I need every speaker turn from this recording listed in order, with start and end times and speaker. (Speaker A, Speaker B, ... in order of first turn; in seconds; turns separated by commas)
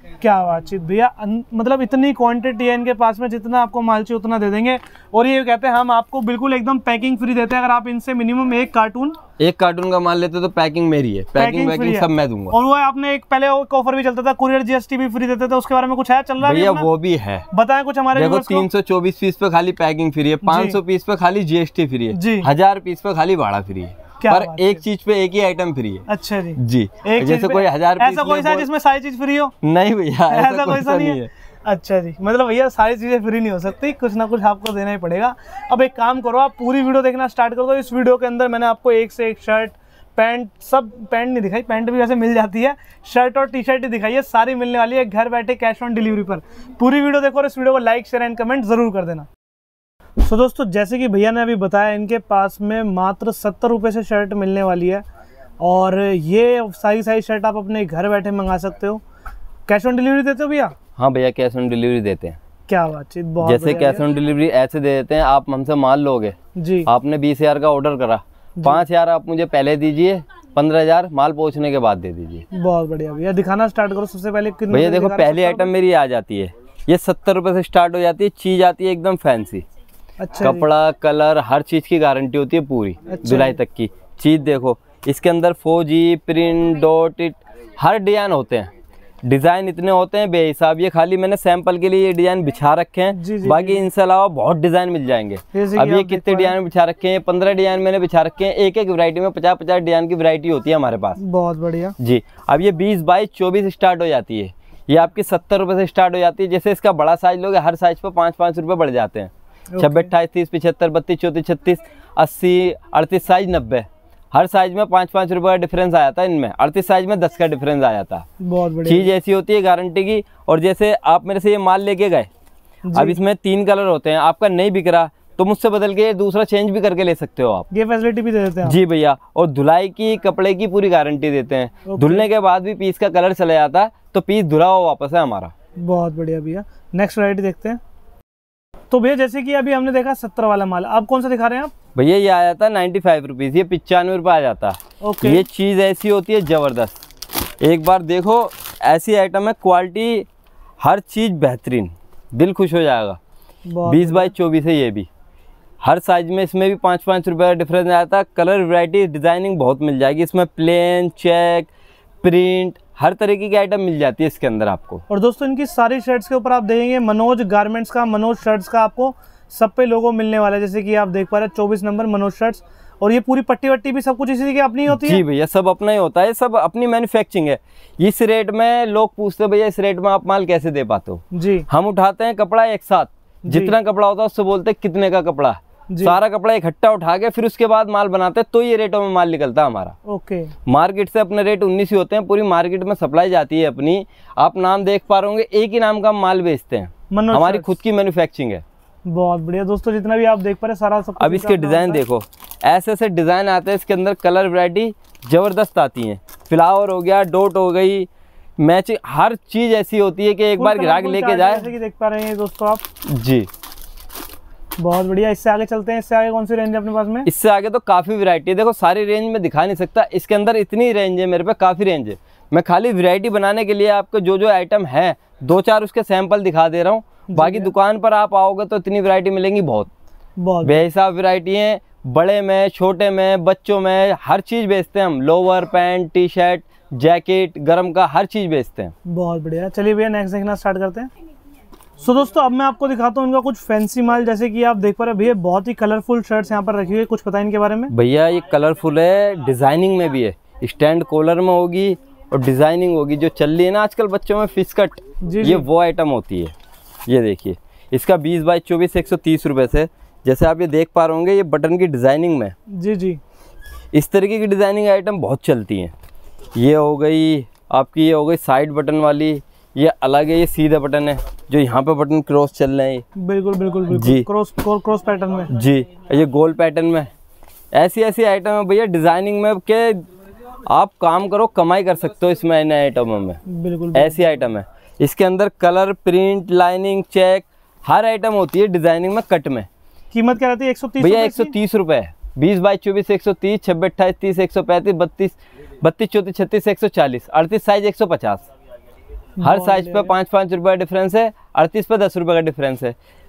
Speaker A: 0.2-9.2, Speaker B: 9.4-12.5, Speaker A: 11.3-16.9, Speaker B: 16.4-17.4, Speaker A: 17.5-18.6, Speaker B: 18.1-26.1, Speaker A: 20.4-20.8, Speaker A: 22.1-22.5, Speaker A: 24.2-24.8, Speaker A: 26.1-29.5, Speaker B: 26.6-28.7, Speaker B: 29.6-31.3, Speaker A: 30.3-49.3, Speaker A: 50.2-55.0, Speaker A: 55.6-59.0, Speaker A: 59.7-60.7, Speaker B: 61.0-62.4, Speaker A: 62.7-64.1, Speaker B: 63.4-66.3, Speaker A: 66.5-66.9, Speaker B: 66.8-72.5, Speaker A: 68.6-68.8, Speaker A: 72.5-75.7, Speaker B: 74.7-79.6, Speaker A: 80.2-80.7, Speaker B: 80.4-88.7, Speaker A: 83.1-83.6, Speaker B: 89.2-101.2, Speaker A: 93.1-93.8, Speaker A: 95.5-96.5, Speaker A: 101.2-102.0, Speaker B: 102.0-118.2, Speaker A: 109.7-110.1, Speaker A: 118.4-119.1, Speaker B: 118.8-122.3, Speaker A: 122.8-123.2, Speaker B: 122.9-127.7, Speaker A: 127.7-128.8, Speaker B: 128.6-135.5, Speaker A: 131.8-132.2, Speaker A: 135.8-137.8, Speaker A: 138.9-141.7, Speaker B: 141.9-147.0, Speaker A: 145.0-145.4, Speaker B: 147.6-150.3, Speaker B: 150.8-153.2, Speaker A: 153.7-154.3, Speaker B: 153.8-155.1, Speaker B: 155.8-161.7, Speaker B: 162.2-165.0, Speaker A: 165.1-175.2, Speaker B: 174.9-189.9, Speaker A: 181.3-181.7, Speaker A: 183.4-183.7, Speaker A: 185.9-186.2, Speaker A: 190.1-190.5, Speaker B: 190.7-198.6, Speaker A: 197.1-197.7, Speaker A: 199.1-202.0, Speaker B: 201.2-208.1, Speaker B: 208.6-211.7, Speaker A: 210.6-212.8, Speaker B: 213.1-213.5, Speaker A: 214.8-217.3, Speaker B: 217.2-229.9, Speaker A: 227.3-227.7, Speaker A: 230.4-230.8, Speaker B: 230.6-238.9, Speaker A: 239.1-241.1, Speaker A: 242.0-247.9, Speaker B: 247.9-256.5, Speaker A: 255.2-255.7, Speaker B: 257.1-262.5, Speaker A: 262.7-263.2, Speaker B: 263.9-265.9, Speaker B: 266.5-273.0, Speaker A: 273.1-275.5, Speaker B: 273.9-274.2, Speaker B: 275.5-277.1, Speaker B: 277.7-280.0, Speaker B: 280.7-283.4, Speaker A: 283.5-284.2, Speaker B: 283.9-289.7, Speaker A: 290.1-291.5, Speaker B: 291.0-298.4, Speaker A: 299.4-300.1, Speaker B: 299.4-302.9